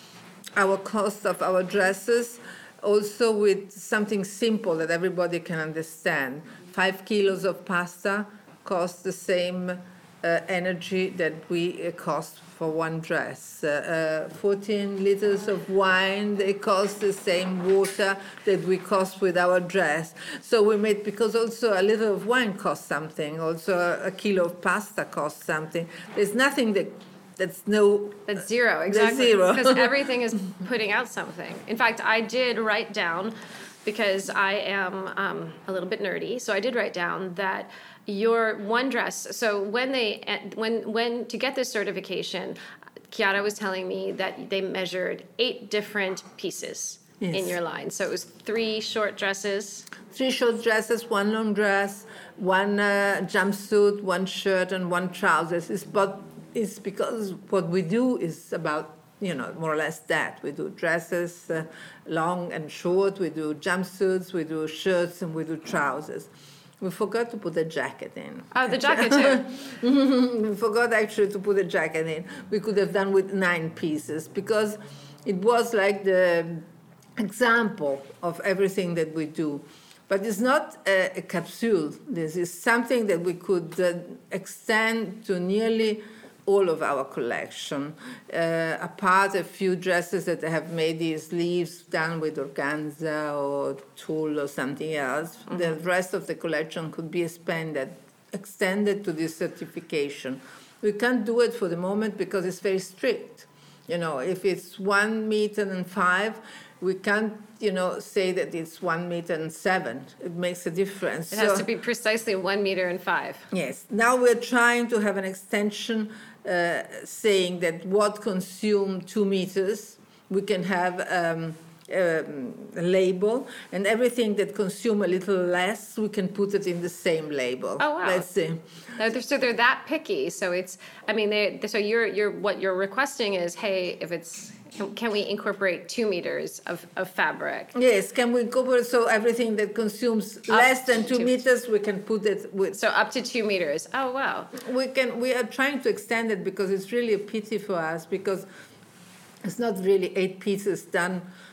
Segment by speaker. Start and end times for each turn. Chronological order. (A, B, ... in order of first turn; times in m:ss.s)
0:00.6-0:30.0 A
0:28.3-0:42.6 B
0:43.1-0:49.9 B
0:47.2-0:47.6 A
0:50.0-1:51.7 A
1:08.5-1:09.4 B
1:51.3-1:53.5 B
1:53.5-2:08.6 A
2:07.8-2:08.3 B
2:09.0-2:17.7 B
2:17.7-2:22.8 A
2:20.5-2:21.4 B
2:22.7-2:24.5 B
2:24.5-2:28.5 A
2:29.4-2:31.3 A